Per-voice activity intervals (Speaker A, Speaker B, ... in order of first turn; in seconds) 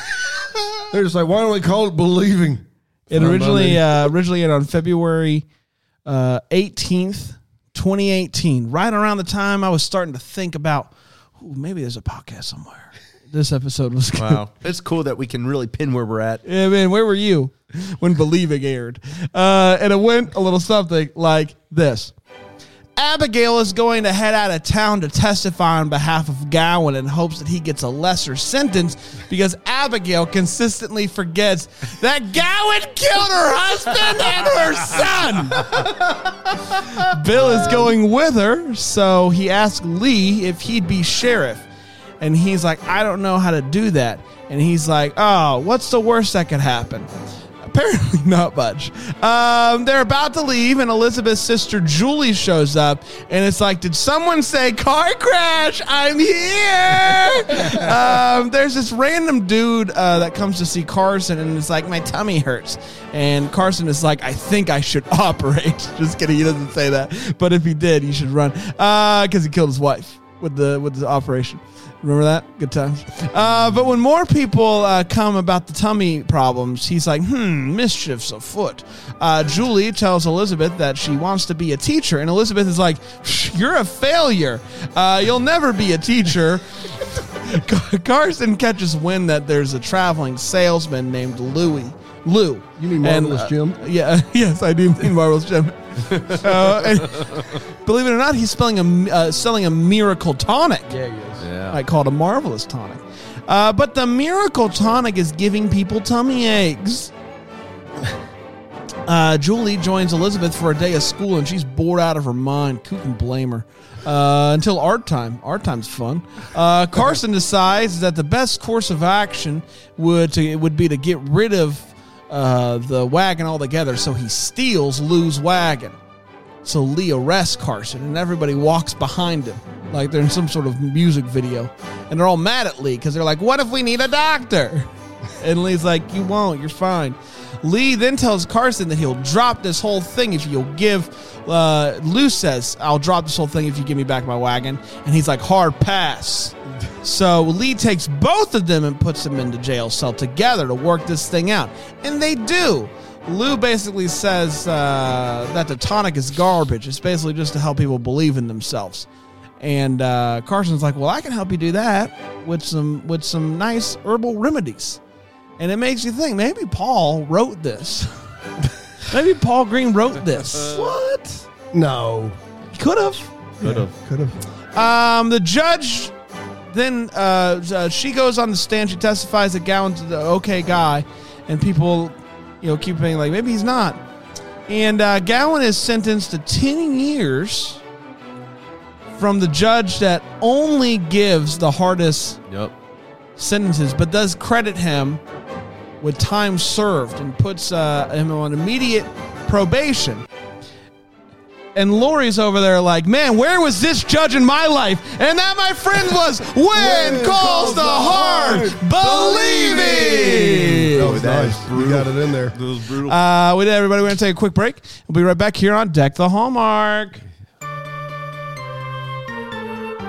Speaker A: 0.9-4.0, 92.8-93.8, 100.9-101.5, 170.7-172.4, 173.6-174.4, 206.7-208.9, 209.7-210.4, 210.9-212.6
Speaker B: 3.1-5.5, 6.1-14.4, 16.4-22.1, 23.0-35.7, 36.9-41.7, 42.2-47.1, 47.6-100.9, 101.7-107.1, 109.1-126.0, 126.6-159.1, 159.6-165.0, 165.6-168.1, 169.1-170.8, 172.7-173.9, 174.7-176.1, 176.7-184.0, 184.7-187.8, 189.2-192.4, 193.4-195.2, 196.0-200.2, 201.8-211.1, 213.0-217.2
Speaker C: 14.2-16.4, 35.6-37.0, 96.3-97.4, 101.4-101.8, 209.0-213.2